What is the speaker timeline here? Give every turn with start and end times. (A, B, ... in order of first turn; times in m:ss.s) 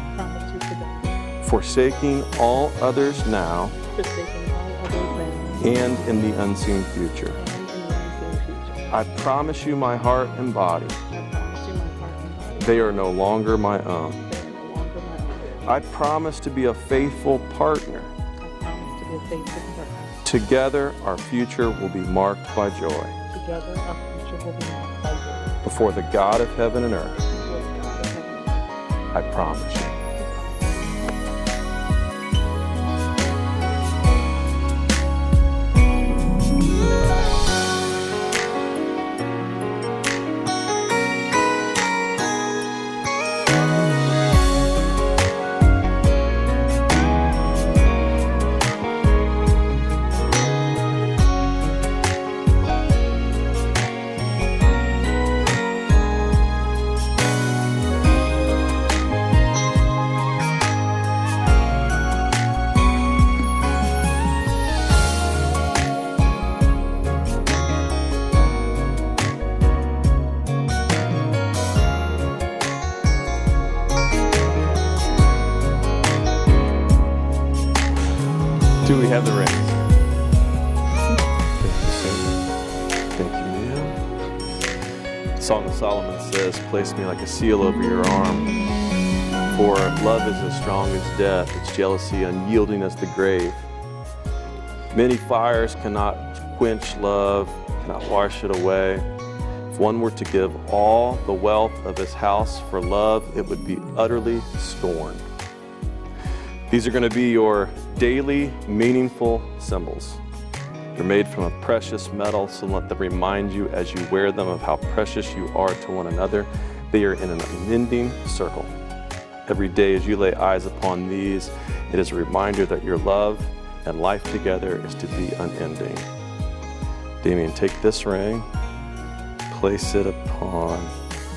0:00.1-0:01.1 A
0:01.4-0:03.8 B
0:03.8-0:06.0 A
0:05.6-0:07.4 B
0:07.4-0:08.9 A
0:08.9-0:11.0 B
0:11.1-0:13.0 A
0:12.6-0:14.2 B
0:14.2-0:15.7 A
0:15.6-0:18.1 B
0:18.4-0:20.1 A
0:20.2-0:23.1 B
0:23.3-0:25.5 A
0:25.6-0:27.2 B
0:27.3-0:28.7 A
0:29.1-0:30.0 B
0:30.1-0:31.1 A
1:18.8-1:19.8 B
1:21.6-1:22.4 B
1:23.2-1:24.0 B
1:25.4-1:28.5 B
1:29.5-1:33.7 B
1:34.9-1:39.0 B
1:39.7-1:45.2 B
1:46.7-1:50.2 B
1:50.9-1:58.7 B
1:59.5-2:06.1 B
2:07.2-2:08.5 B
2:09.5-2:10.9 B